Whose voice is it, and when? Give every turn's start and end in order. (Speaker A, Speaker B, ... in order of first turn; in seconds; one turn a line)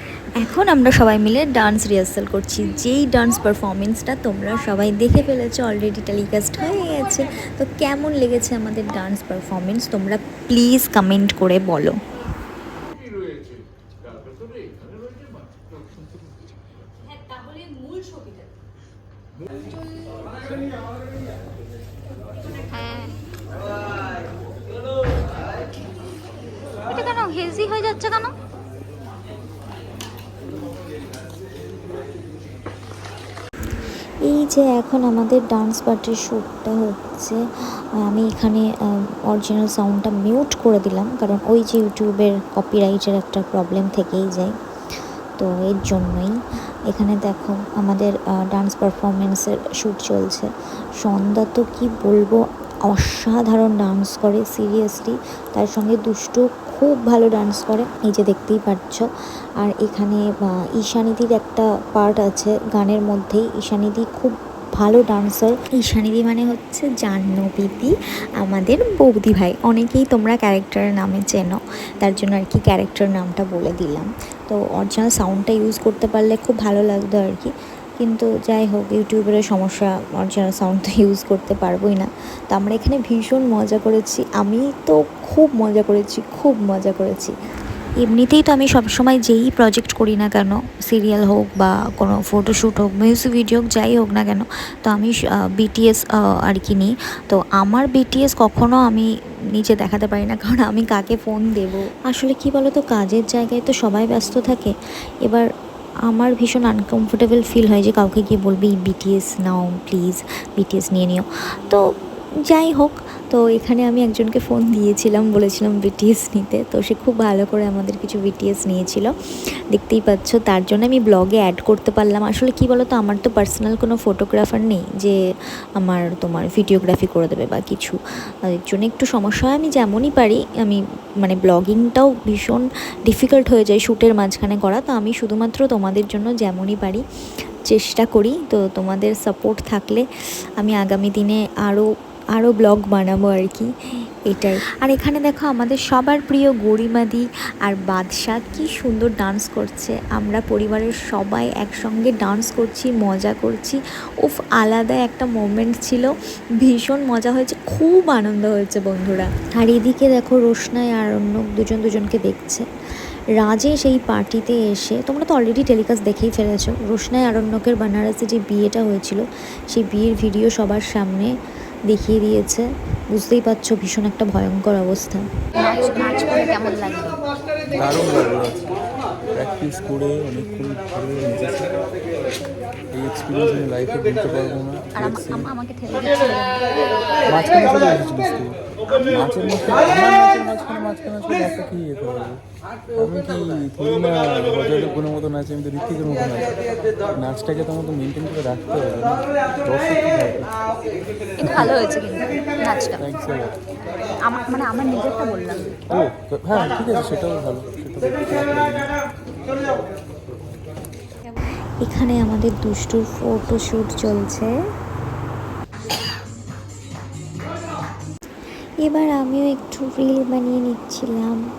Speaker A: 0.3-11.9
Speaker B: 22.7-23.2
Speaker B: 26.9-28.3
Speaker A: 34.2-37.4
Speaker A: 38.0-44.6
Speaker A: 45.4-46.4
Speaker A: 46.9-50.5
Speaker A: 51.0-59.1
Speaker A: 59.6-87.3
Speaker A: 88.0-104.7
Speaker A: 106.1-111.8
Speaker A: 112.5-119.1
Speaker A: 119.7-125.2
Speaker A: 125.8-128.0
Speaker A: 128.5-137.0
Speaker A: 137.7-140.0
Speaker A: 140.6-143.7
Speaker A: 144.3-162.7
Speaker A: 163.4-171.3
Speaker A: 171.9-175.2
Speaker B: 175.5-177.2
Speaker C: 177.7-178.7
Speaker C: 179.3-181.8
Speaker C: 182.9-185.5
Speaker B: 184.9-186.7
Speaker C: 187.3-192.4
Speaker C: 193.0-196.6
Speaker C: 197.1-200.5
Speaker B: 201.4-203.0
Speaker C: 201.4-201.8
Speaker C: 203.0-203.5
Speaker B: 204.2-205.8
Speaker C: 205.9-209.0
Speaker A: 211.8-214.5
Speaker A: 218.8-221.4